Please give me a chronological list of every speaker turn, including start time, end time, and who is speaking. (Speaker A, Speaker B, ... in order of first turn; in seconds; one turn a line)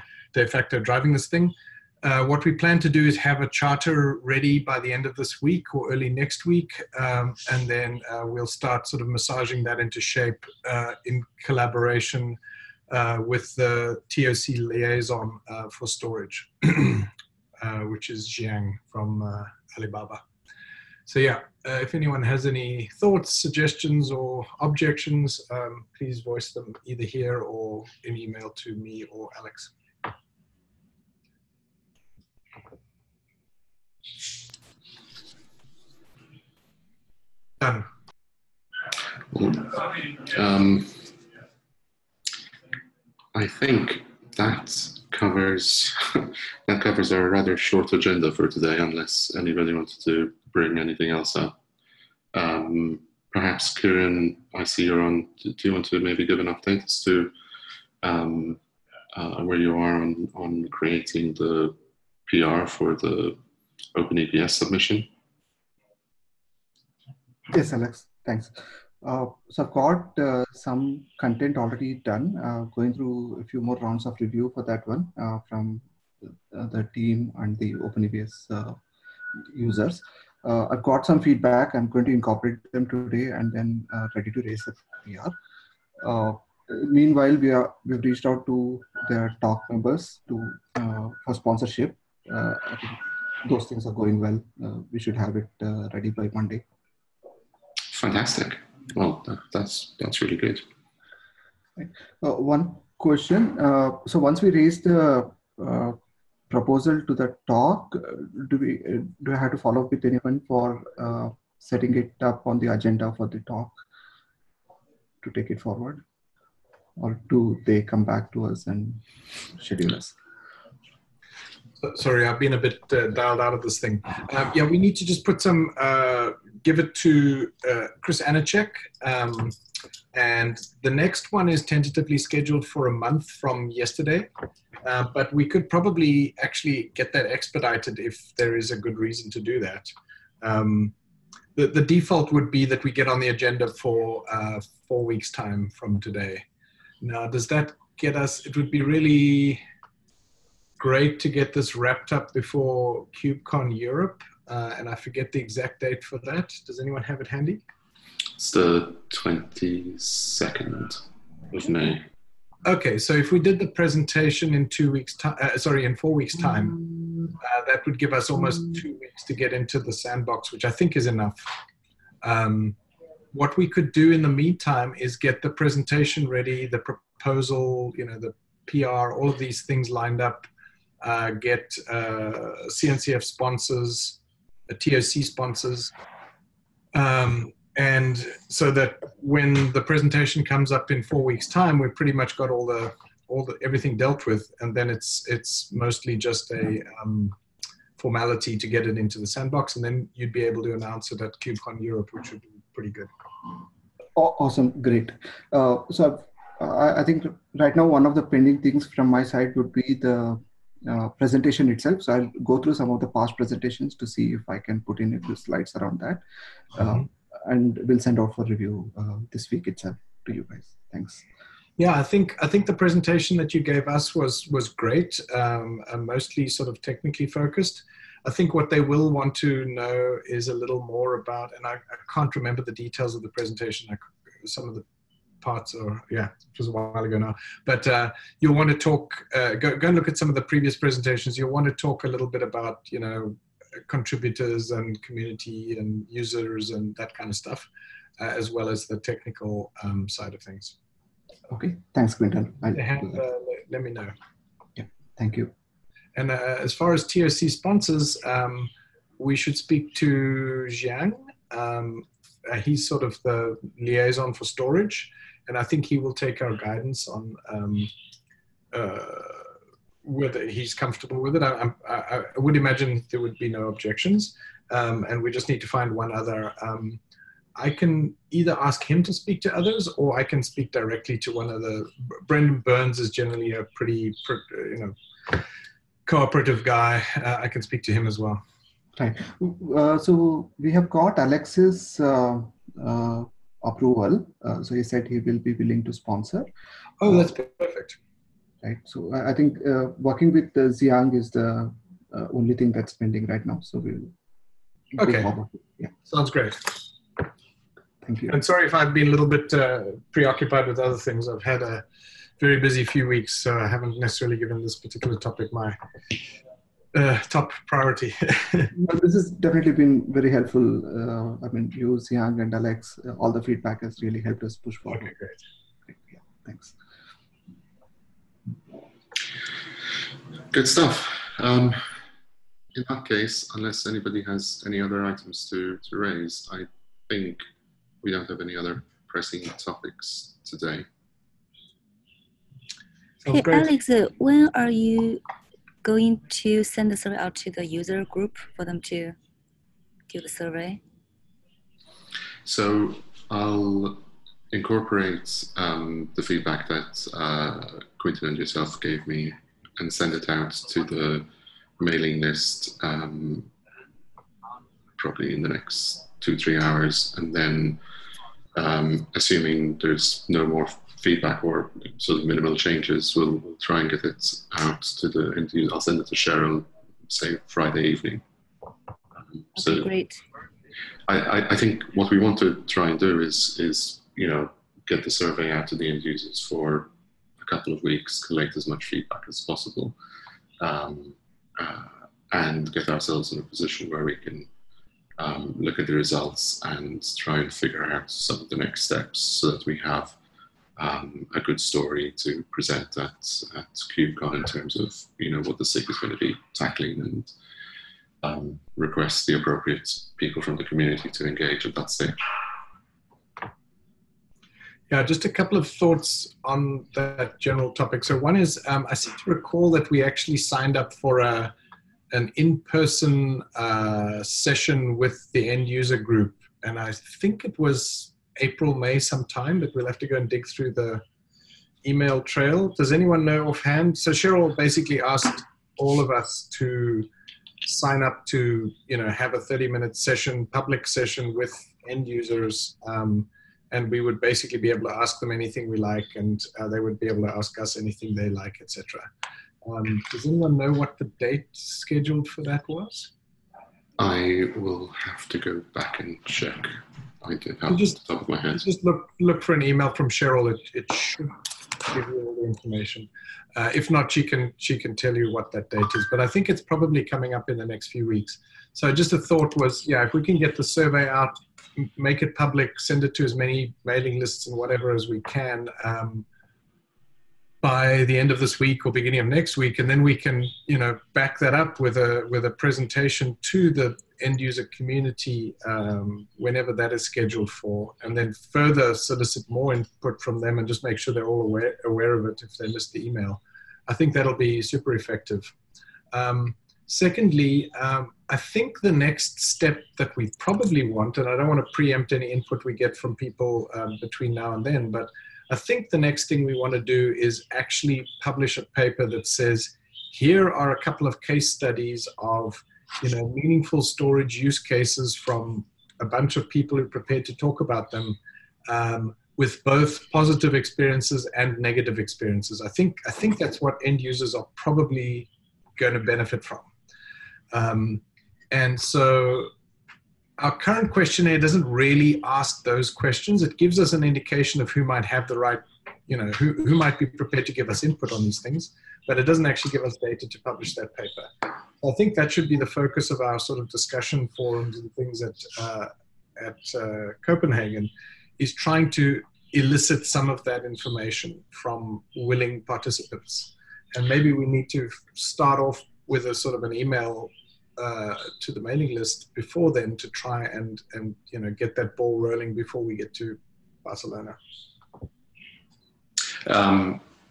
Speaker A: 0.3-12.4
Speaker A: 12.9-20.2
Speaker A: 21.1-29.7
Speaker A: 37.6-37.9
Speaker B: 39.2-41.2
Speaker B: 43.3-51.5
Speaker B: 52.3-57.3
Speaker B: 58.0-58.6
Speaker B: 59.1-61.8
Speaker B: 62.3-63.4
Speaker B: 64.0-65.1
Speaker C: 67.5-75.8
Speaker C: 76.5-78.8
Speaker C: 79.4-85.3
Speaker C: 86.0-96.6
Speaker B: 97.9-100.7
Speaker C: 101.8-106.0
Speaker C: 106.5-113.8
Speaker C: 115.2-116.0
Speaker C: 117.0-119.0
Speaker C: 119.5-120.2
Speaker A: 121.8-129.6
Speaker A: 130.1-134.3
Speaker A: 134.8-139.9
Speaker A: 140.4-140.9
Speaker A: 141.6-146.4
Speaker A: 147.0-149.6
Speaker A: 150.8-157.6
Speaker B: 158.4-162.0
Speaker A: 162.7-166.8
Speaker A: 167.4-171.5
Speaker A: 172.2-172.8
Speaker A: 173.3-180.5
Speaker A: 181.0-185.9
Speaker A: 186.9-197.3
Speaker A: 198.0-203.1
Speaker C: 204.2-216.2
Speaker C: 216.8-221.2
Speaker A: 221.8-234.8
Speaker A: 235.4-247.7
Speaker A: 248.2-250.8
Speaker C: 251.5-253.2
Speaker A: 252.7-254.1
Speaker C: 254.8-255.5
Speaker A: 256.1-267.9
Speaker A: 268.7-269.5
Speaker A: 270.1-277.0
Speaker A: 277.6-285.4
Speaker A: 286.1-288.4
Speaker C: 289.0-296.5
Speaker A: 297.0-298.0
Speaker C: 297.0-297.3
Speaker C: 298.6-304.1
Speaker C: 304.9-305.9
Speaker A: 305.0-305.3
Speaker A: 306.1-306.8
Speaker C: 308.0-308.4
Speaker A: 308.3-311.9
Speaker A: 312.4-315.8
Speaker A: 316.9-318.7
Speaker C: 318.8-325.1
Speaker A: 324.9-325.4
Speaker C: 325.9-326.8
Speaker B: 330.5-331.8
Speaker B: 332.8-337.4
Speaker B: 338.0-340.9
Speaker A: 343.2-343.7
Speaker D: 343.2-345.2
Speaker D: 345.8-349.2
Speaker D: 350.1-350.8
Speaker B: 352.4-361.3
Speaker B: 361.8-363.5
Speaker B: 365.0-367.8
Speaker B: 368.6-378.2
Speaker B: 379.5-379.9
Speaker D: 379.6-380.2
Speaker B: 381.1-390.0
Speaker B: 390.6-394.5
Speaker B: 395.2-400.2
Speaker B: 400.8-407.3
Speaker B: 408.2-412.2
Speaker A: 414.9-421.5
Speaker A: 422.1-431.0
Speaker A: 431.8-437.1
Speaker A: 437.6-449.1
Speaker A: 449.6-453.1
Speaker B: 454.0-458.6
Speaker A: 457.7-458.0
Speaker A: 458.5-461.3
Speaker A: 461.9-476.3
Speaker A: 477.6-495.5
Speaker A: 496.1-526.7
Speaker A: 527.5-529.5
Speaker A: 530.4-541.3
Speaker A: 541.8-564.4
Speaker B: 566.5-567.0